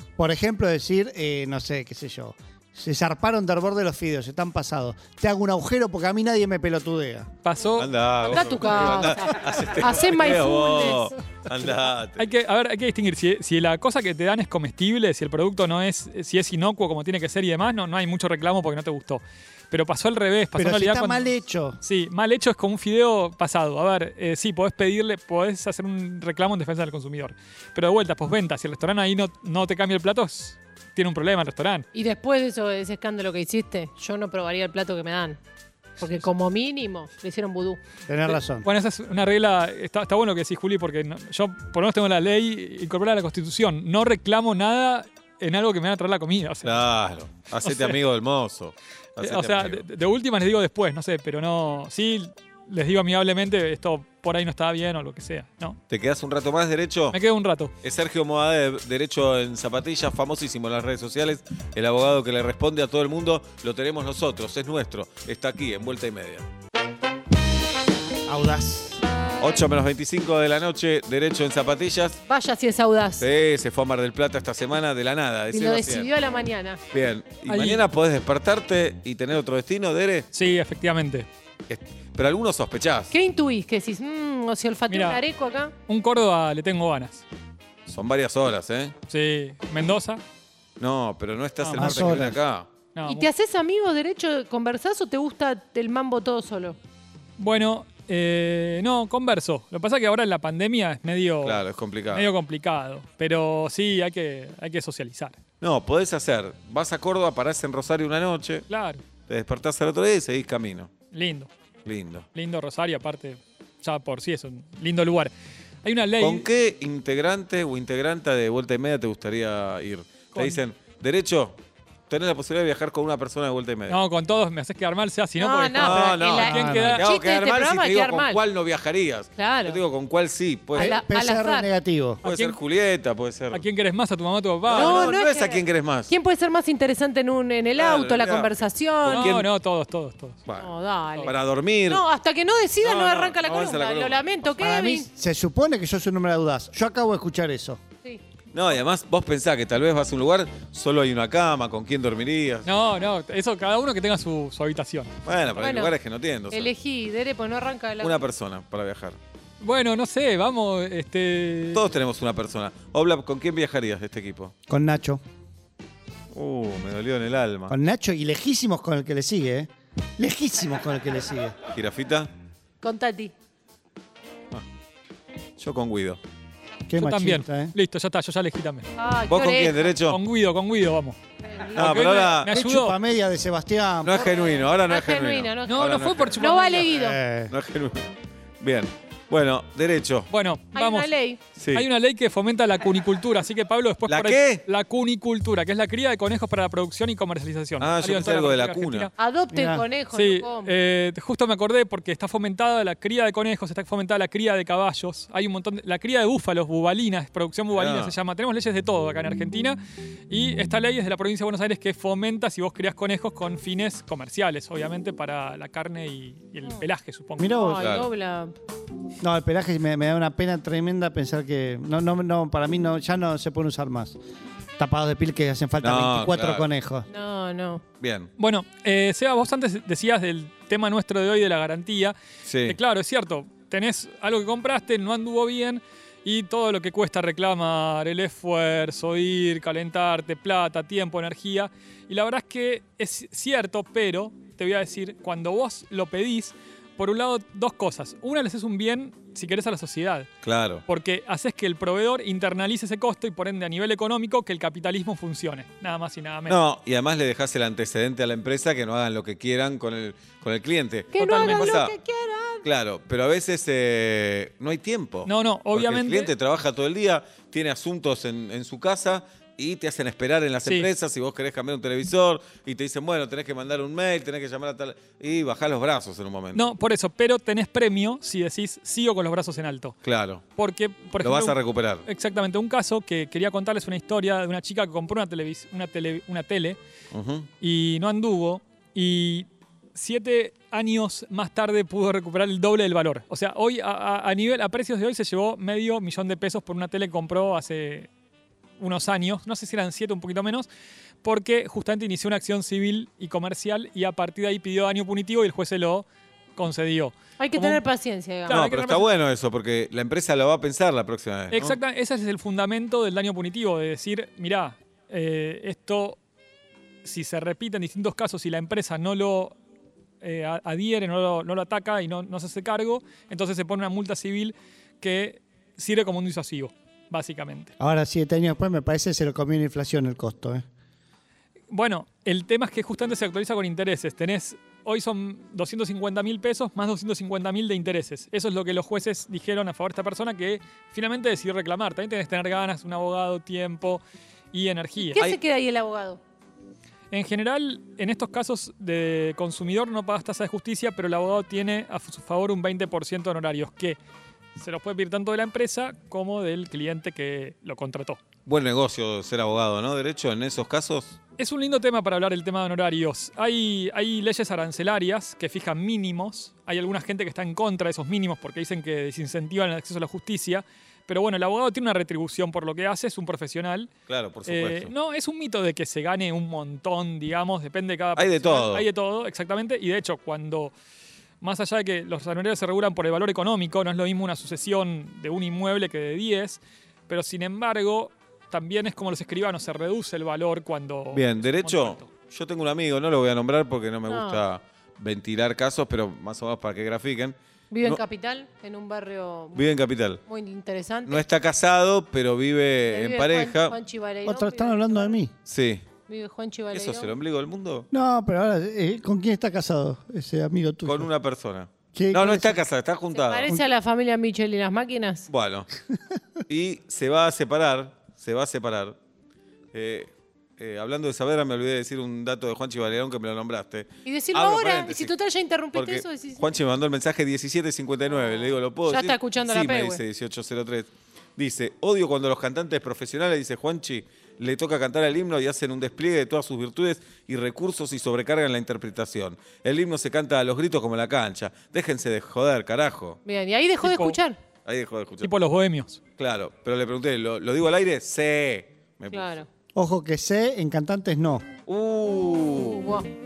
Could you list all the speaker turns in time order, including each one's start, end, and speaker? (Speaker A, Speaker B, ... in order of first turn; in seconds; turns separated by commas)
Speaker A: 0.2-7.3, Speaker B: 7.4-8.9, Speaker C: 7.8-12.2, Speaker D: 8.3-11.1, Speaker B: 12.2-21.3, Speaker A: 20.5-21.8, Speaker B: 21.8-31.9, Speaker D: 31.9-35.4, Speaker D: 36.0-37.8, Speaker A: 38.1-38.7, Speaker B: 38.3-46.8, Speaker C: 46.6-49.9, Speaker B: 47.6-48.0, Speaker B: 49.2-55.8, Speaker C: 55.9-57.2, Speaker B: 57.1-57.7, Speaker C: 57.8-66.5, Speaker A: 68.3-69.0, Speaker C: 69.4-72.2, Speaker D: 72.3-73.3, Speaker C: 73.2-76.1, Speaker D: 75.5-76.8, Speaker C: 76.9-80.3, Speaker B: 77.5-77.8, Speaker B: 80.3-81.3, Speaker C: 81.7-83.1, Speaker D: 83.1-85.7, Speaker B: 84.9-85.2, Speaker B: 85.9-87.2, Speaker C: 87.9-88.9, Speaker B: 89.1-90.2, Speaker C: 90.8-92.7, Speaker B: 91.6-92.2, Speaker A: 91.7-92.4, Speaker B: 92.9-93.3, Speaker D: 93.1-96.8, Speaker B: 97.4-105.4, Speaker C: 101.4-102.3, Speaker C: 105.6-108.6, Speaker B: 108.7-109.0, Speaker C: 109.3-110.9, Speaker B: 111.1-111.5, Speaker C: 111.8-112.2, Speaker B: 112.3-115.3, Speaker B: 115.8-116.4, Speaker C: 116.2-121.6, Speaker B: 120.3-120.6, Speaker C: 122.1-124.0, Speaker B: 123.9-127.0, Speaker D: 125.4-128.4, Speaker C: 125.8-131.0, Speaker A: 126.5-127.0, Speaker D: 129.3-129.8, Speaker D: 130.7-131.7, Speaker A: 130.8-132.2, Speaker B: 132.2-132.6, Speaker C: 132.2-133.6, Speaker B: 133.5-135.1, Speaker C: 134.7-136.1, Speaker D: 134.7-139.4, Speaker C: 137.8-139.4, Speaker B: 139.1-140.4, Speaker D: 140.6-141.3, Speaker C: 141.2-142.0, Speaker D: 141.9-145.1, Speaker C: 142.8-144.3, Speaker A: 144.6-147.8, Speaker C: 148.5-152.7, Speaker B: 152.6-155.1, Speaker C: 155.2-156.7, Speaker D: 155.6-155.9, Speaker D: 156.5-158.2, Speaker C: 158.0-159.2, Speaker B: 159.6-161.8, Speaker C: 161.7-164.5, Speaker A: 164.7-165.2, Speaker C: 166.3-167.7, Speaker A: 167.7-171.6, Speaker C: 171.7-172.3, Speaker D: 172.8-173.3, Speaker C: 175.6-176.2, Speaker A: 176.9-177.7, Speaker B: 176.9-178.9, Speaker D: 179.0-179.9, Speaker C: 179.3-180.2, Speaker B: 180.1-181.2, Speaker D: 181.4-182.0, Speaker B: 181.7-183.0, Speaker C: 181.8-182.5, Speaker A: 182.5-184.2, Speaker C: 184.0-186.4, Speaker D: 184.2-187.2, Speaker B: 185.7-186.9, Speaker A: 186.9-187.5, Speaker C: 187.5-188.0, Speaker C: 188.6-190.3, Speaker B: 190.3-191.1, Speaker D: 190.7-191.4, Speaker C: 191.5-191.9, Speaker B: 191.7-199.1, Speaker C: 194.1-194.6, Speaker C: 197.8-199.1, Speaker D: 199.2-200.7, Speaker A: 199.5-199.8, Speaker B: 200.1-209.8, Speaker C: 207.7-208.1, Speaker B: 210.3-217.5, Speaker A: 217.4-217.9, Speaker D: 217.4-218.5, Speaker C: 217.8-218.1, Speaker A: 219.2-224.2, Speaker A: 224.8-227.1, Speaker C: 225.8-226.7, Speaker D: 227.1-227.8, Speaker C: 228.0-228.3, Speaker B: 228.4-250.3, Speaker C: 232.4-232.8, Speaker C: 250.4-250.8, Speaker B: 250.9-256.6, Speaker C: 256.5-261.9, Speaker D: 261.1-262.6, Speaker B: 261.2-261.8, Speaker C: 262.6-276.6, Speaker B: 265.2-266.3, Speaker B: 276.5-279.9, Speaker C: 280.0-280.4, Speaker B: 280.6-286.8, Speaker C: 281.2-282.0, Speaker C: 287.1-287.5, Speaker B: 287.6-298.1, Speaker B: 298.8-300.7, Speaker B: 301.2-307.8, Speaker D: 307.4-308.6, Speaker B: 308.4-309.1, Speaker C: 308.5-311.8, Speaker B: 311.5-316.2, Speaker B: 317.0-319.6, Speaker B: 320.2-327.7, Speaker A: 327.8-330.6, Speaker B: 331.7-345.2, Speaker D: 345.1-346.2, Speaker B: 347.1-354.0, Speaker B: 354.6-358.2, Speaker C: 358.4-361.2, Speaker B: 361.4-373.9, Speaker C: 374.1-374.9, Speaker B: 374.4-380.7, Speaker C: 378.2-378.9, Speaker B: 381.4-392.1, Speaker C: 391.1-398.0, Speaker D: 394.1-394.4, Speaker D: 397.7-399.7, Speaker C: 399.5-400.2, Speaker D: 400.2-401.2, Speaker C: 401.1-403.8, Speaker D: 402.9-405.1, Speaker A: 404.2-405.3, Speaker C: 405.4-405.9, Speaker D: 406.1-407.1, Speaker C: 406.7-407.9, Speaker A: 407.9-411.1, Speaker C: 410.8-413.5, Speaker A: 411.9-412.6, Speaker D: 413.1-415.3, Speaker C: 415.3-415.7, Speaker C: 416.5-419.0, Speaker C: 419.7-425.1, Speaker D: 424.0-426.4, Speaker C: 425.7-443.2, Speaker D: 428.9-430.0, Speaker D: 443.2-444.4, Speaker B: 443.8-444.2, Speaker C: 444.6-445.3, Speaker B: 445.2-446.0, Speaker C: 446.2-449.4, Speaker D: 449.1-449.5, Speaker A: 449.7-451.4, Speaker C: 451.7-452.9, Speaker D: 452.3-453.1